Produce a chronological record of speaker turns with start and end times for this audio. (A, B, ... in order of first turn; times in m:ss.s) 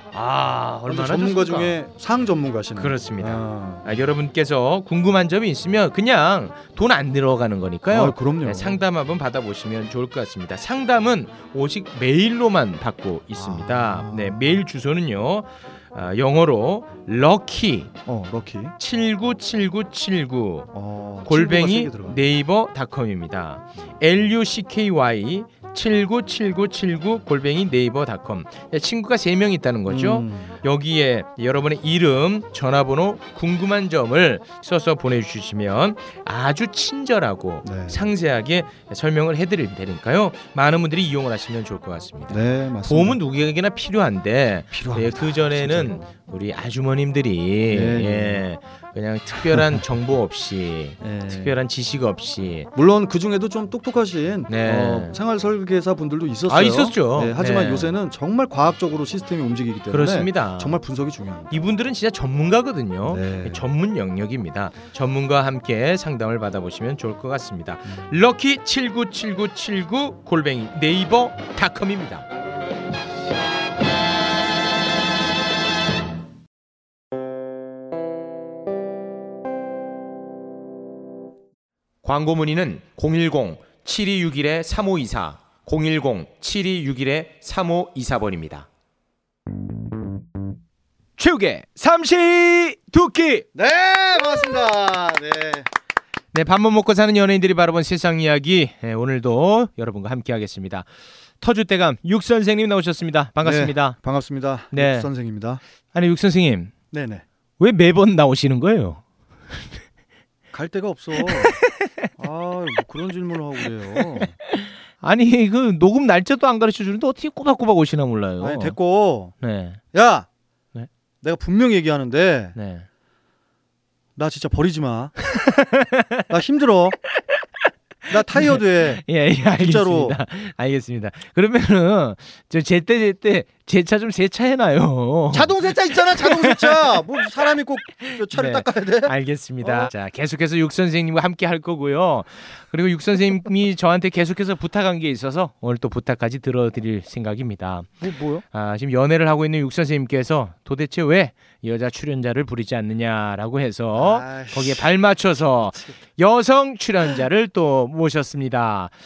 0:00.1-0:01.8 A
0:00.9-0:03.9 B
0:02.8-0:17.9 A
0:07.9-0:08.8 B
0:13.4-0:14.6 B
0:18.1-0:18.7 B
0:18.8-0:20.7 A
0:20.7-0:22.2 B
0:21.3-0:52.7 A
0:29.9-0:30.6 B
0:37.6-0:38.0 B
0:42.3-0:43.2 B
0:44.7-0:46.0 B
0:47.7-0:48.4 B
0:51.0-0:51.6 B
0:52.8-1:01.5 B
0:54.5-0:55.2 A
0:56.5-0:57.9 A
0:59.9-1:00.8 A
1:01.5-1:12.3 A
1:03.1-1:03.7 B
1:22.0-1:28.7 A
1:31.2-1:33.5 A
1:33.5-1:35.7 B
1:36.3-1:40.9 A
1:41.4-1:44.0 A
1:43.4-1:45.6 B
1:44.7-1:45.1 A
1:45.9-1:46.7 A
1:46.9-1:47.2 B
1:47.6-1:49.0 A
1:50.5-1:51.6 B
1:51.3-1:51.7 A
1:52.2-1:54.4 B
1:55.0-1:58.8 A
1:58.4-1:59.4 B
1:59.4-1:59.8 A
1:59.9-2:00.3 B
2:01.2-2:02.6 B
2:02.6-2:02.9 A
2:04.2-2:05.2 B
2:05.3-2:06.2 A
2:06.3-2:07.0 B
2:08.1-2:10.2 B
2:08.1-2:17.2 A
2:15.3-2:19.9 B
2:18.0-2:38.9 A
2:28.0-2:28.4 B
2:34.0-2:34.9 B
2:35.6-2:35.9 B